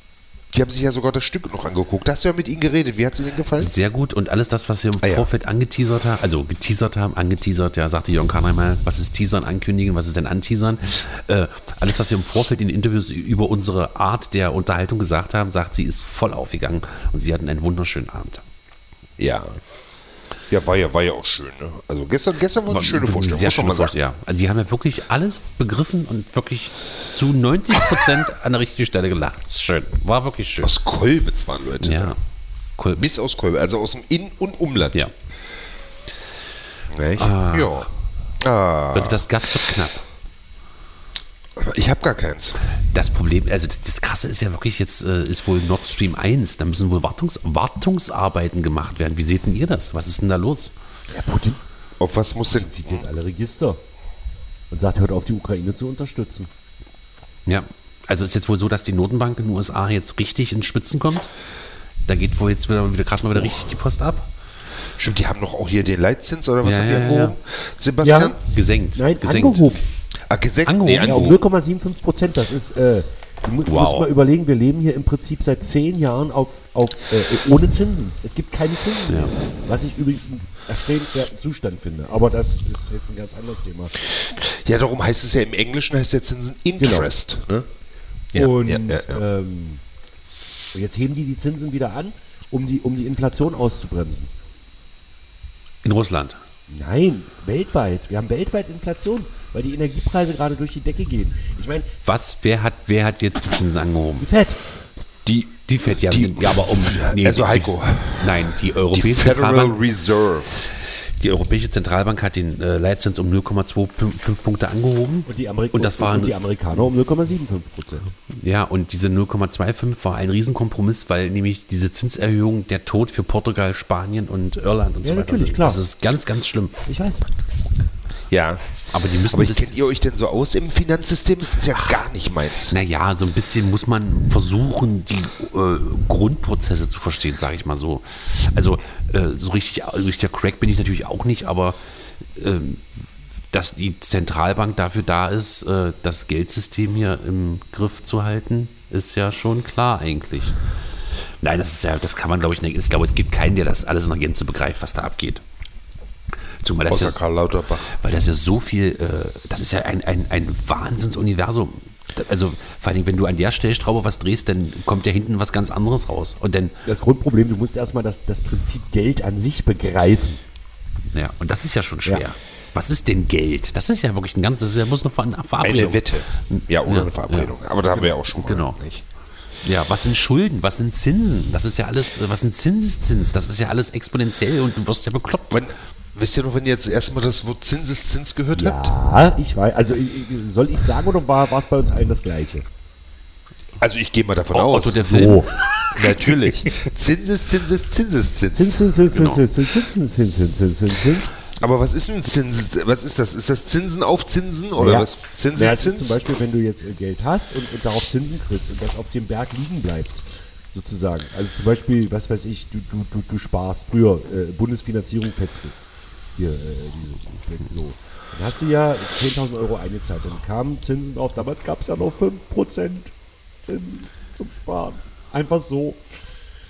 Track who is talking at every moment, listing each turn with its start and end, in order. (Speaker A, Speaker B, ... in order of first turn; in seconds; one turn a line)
Speaker A: 0.5-3.7
Speaker B: 3.6-18.4
Speaker A: 5.0-5.3
Speaker A: 19.2-19.6
Speaker A: 20.5-23.9
Speaker B: 22.7-30.7
Speaker A: 30.6-32.1
Speaker B: 31.8-32.2
Speaker B: 32.8-33.0
Speaker A: 33.0-35.0
Speaker A: 36.9-37.9
Speaker B: 37.2-37.9
Speaker A: 38.4-39.3
Speaker B: 38.9-40.0
Speaker A: 41.6-42.6
Speaker B: 42.9-50.7
Speaker C: 51.1-51.6
Speaker A: 52.0-53.0
Speaker C: 52.5-53.8
Speaker C: 54.7-56.5
Speaker B: 57.5-61.3
Speaker B: 62.1-64.3
Speaker A: 65.0-68.4
Speaker B: 66.6-67.3
Speaker C: 68.0-68.4
Speaker B: 68.4-69.7
Speaker C: 68.9-69.8
Speaker A: 70.3-71.4
Speaker B: 70.7-71.2
Speaker C: 70.9-83.9
Speaker B: 73.7-74.1
Speaker A: 84.3-87.7
Speaker C: 86.8-87.1
Speaker A: 88.3-89.2
Speaker C: 88.3-89.8
Speaker C: 90.7-94.3
Speaker B: 95.8-96.4
Speaker C: 96.7-101.9
Speaker B: 102.0-104.3
Speaker C: 104.2-104.6
Speaker A: 105.2-110.6
Speaker B: 105.6-109.8
Speaker B: 110.7-116.3
Speaker C: 115.2-118.1
Speaker B: 118.3-126.8
Speaker C: 125.0-125.8
Speaker C: 126.8-127.3
Speaker A: 128.3-128.6
Speaker B: 128.9-129.7
Speaker A: 129.3-132.7
Speaker B: 132.7-141.8
Speaker B: 142.3-142.8
Speaker B: 143.5-150.6
Speaker B: 151.4-155.4
Speaker B: 156.6-157.2
Speaker A: 156.9-157.9
Speaker B: 157.9-166.8
Speaker C: 166.8-170.4
Speaker B: 171.1-177.5
Speaker A: 175.6-179.0
Speaker B: 178.4-178.8
Speaker B: 179.6-185.6
Speaker A: 185.5-188.9
Speaker C: 188.5-192.7
Speaker A: 193.8-198.9
Speaker B: 194.5-196.2
Speaker C: 195.1-195.4
Speaker C: 198.5-201.4
Speaker B: 199.1-199.4
Speaker A: 201.5-206.2
Speaker C: 204.8-226.0